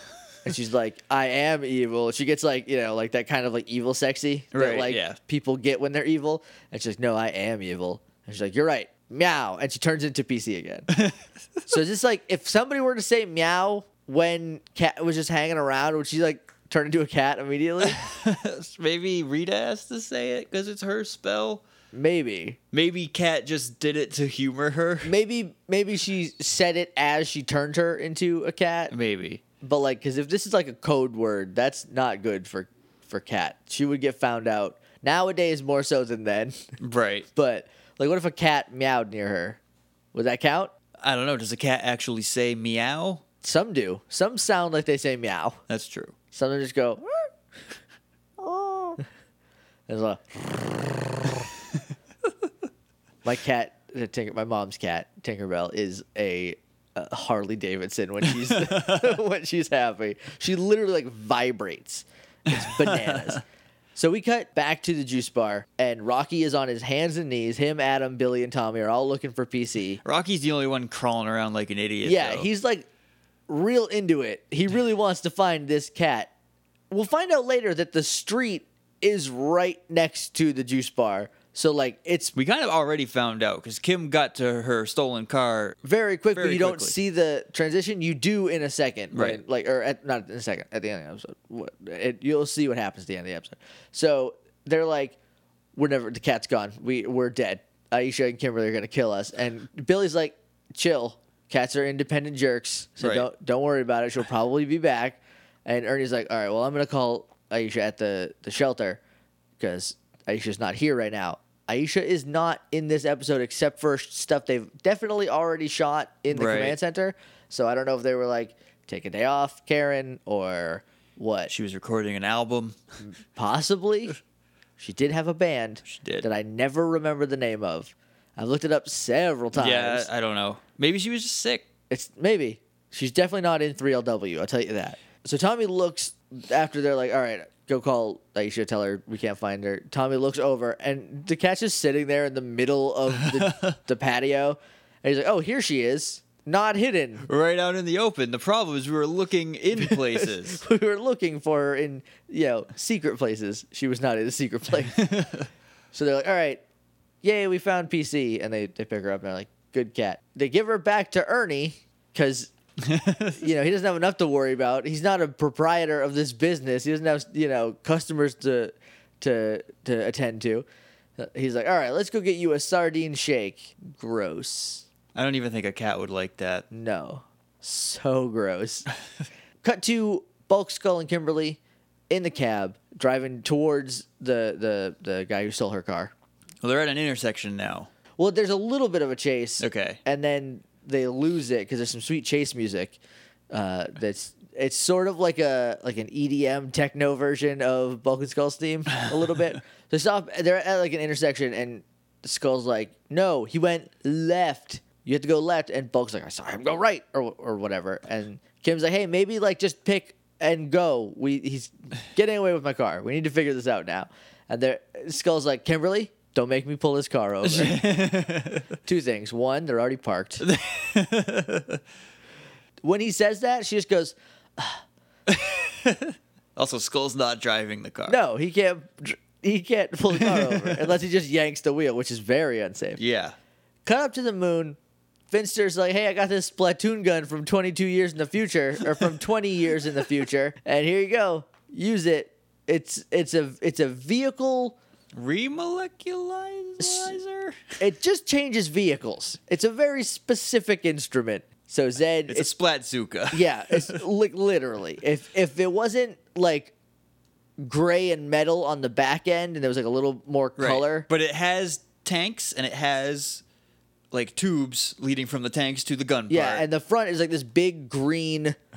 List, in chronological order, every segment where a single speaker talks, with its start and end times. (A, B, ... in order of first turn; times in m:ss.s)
0:00.4-0:10.9 A
0:04.5-0:05.2 B
0:10.9-0:11.7 B
0:11.7-0:18.0 A
0:17.8-0:21.6 B
0:21.9-0:22.6 A
0:22.7-0:25.1 B
0:25.0-0:28.9 A
0:28.9-0:29.4 B
0:29.6-0:36.6 A
0:36.8-0:37.3 B
0:37.4-0:39.6 A
0:40.1-0:40.7 A
0:41.0-0:43.2 B
0:43.4-0:45.6 A
0:45.7-0:46.1 B
0:46.3-0:47.1 A
0:48.4-0:49.0 A
0:49.9-0:50.7 A
0:53.2-1:03.4 A
0:58.3-0:59.1 B
1:02.5-1:03.4 B
1:03.9-1:10.0 A
1:10.0-1:12.5 B
1:12.0-1:12.8 A
1:13.5-1:16.3 A
1:16.9-1:22.3 A
1:22.3-1:25.8 B
1:25.8-1:35.2 A
1:26.3-1:26.9 B
1:29.1-1:29.4 B
1:35.7-1:49.0 A
1:43.0-1:43.3 B
1:49.6-2:01.5 A
1:56.3-1:56.8 B
2:01.5-2:02.8 B
2:03.0-2:04.2 A
2:04.8-2:10.1 A
2:05.8-2:06.3 B
2:09.5-2:11.7 B
2:11.9-2:27.3 A
2:23.1-2:23.8 B
2:27.2-2:30.6 B
2:29.8-2:35.0 A
2:34.9-2:35.5 B
2:35.9-2:36.6 A
2:37.2-2:42.5 A
2:42.8-2:43.4 B
2:43.3-2:50.6 A
2:51.2-2:54.8 A
2:55.1-2:56.6 B
2:56.7-2:58.9 A
2:59.6-3:06.1 A
3:06.6-3:07.9 B
3:08.2-3:13.0 A
3:09.6-3:10.0 B
3:13.5-3:37.8 A
3:37.4-3:38.7 B
3:38.8-3:40.4 A
3:40.4-3:41.8 B
3:42.8-3:44.8 A
3:45.3-3:48.2 B
3:48.1-3:53.0 A
3:50.2-3:50.8 B
3:53.0-3:53.3 B
3:53.8-3:54.8 A
3:55.3-4:04.8 A
4:05.1-4:07.8 B
4:06.8-4:07.2 A
4:07.8-4:12.5 A
4:12.3-4:14.0 B
4:13.3-4:16.7 A
4:17.6-4:21.1 A
4:20.6-4:23.4 B
4:24.1-4:26.6 B
4:26.3-4:28.6 A